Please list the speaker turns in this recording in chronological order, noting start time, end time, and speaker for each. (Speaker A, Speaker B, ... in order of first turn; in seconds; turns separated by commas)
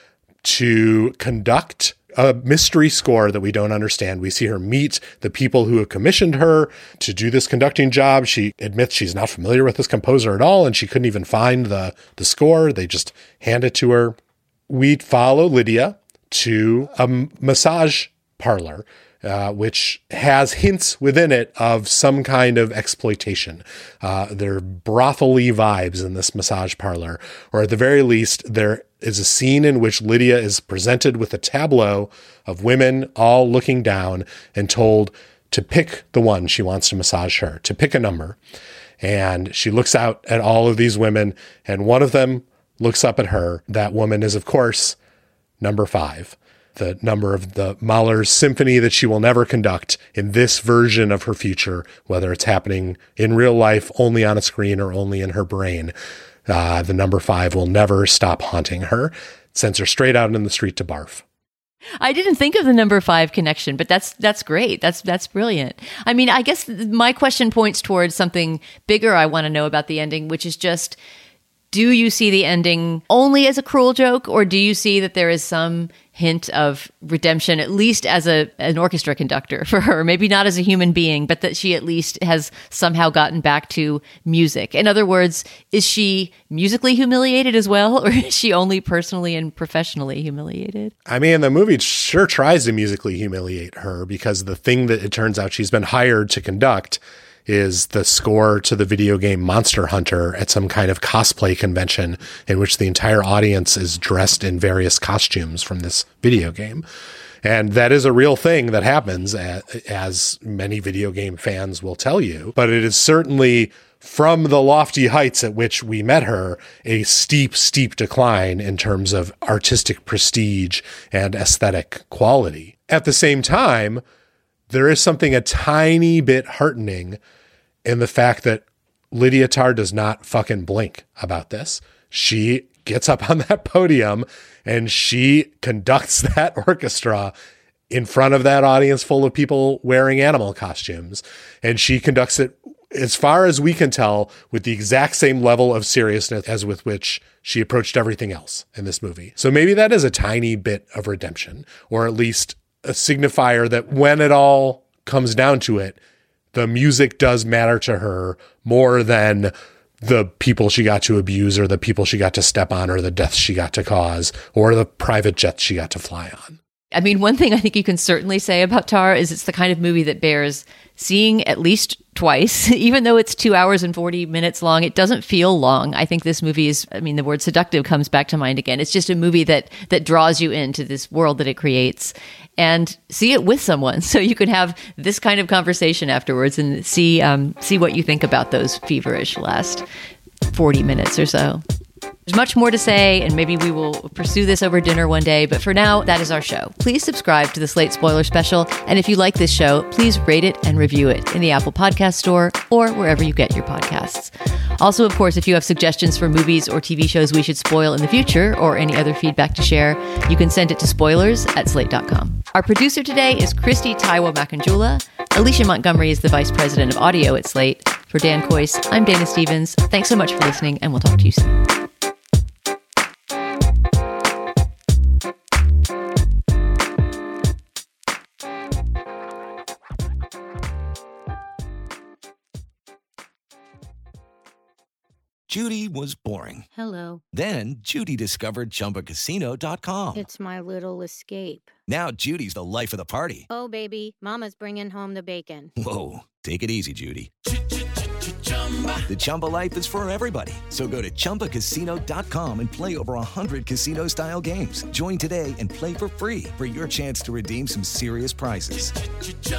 Speaker A: 0.4-14.2, Speaker A: 14.7-38.4, Speaker A: 39.0-45.0, Speaker A: 45.6-55.9, Speaker A: 56.5-61.2, Speaker B: 62.0-71.0, Speaker B: 71.7-90.9, Speaker A: 91.1-106.8, Speaker A: 107.4-124.0, Speaker A: 124.7-127.2, Speaker A: 127.8-137.3, Speaker A: 137.9-156.0, Speaker A: 156.5-166.6, Speaker B: 166.9-189.8, Speaker B: 190.5-191.6, Speaker B: 192.3-221.6, Speaker C: 235.5-236.7, Speaker D: 236.7-237.2, Speaker C: 237.3-240.3, Speaker D: 240.1-241.7, Speaker C: 241.9-243.5, Speaker D: 243.5-245.7, Speaker C: 245.8-247.3, Speaker C: 249.1-258.9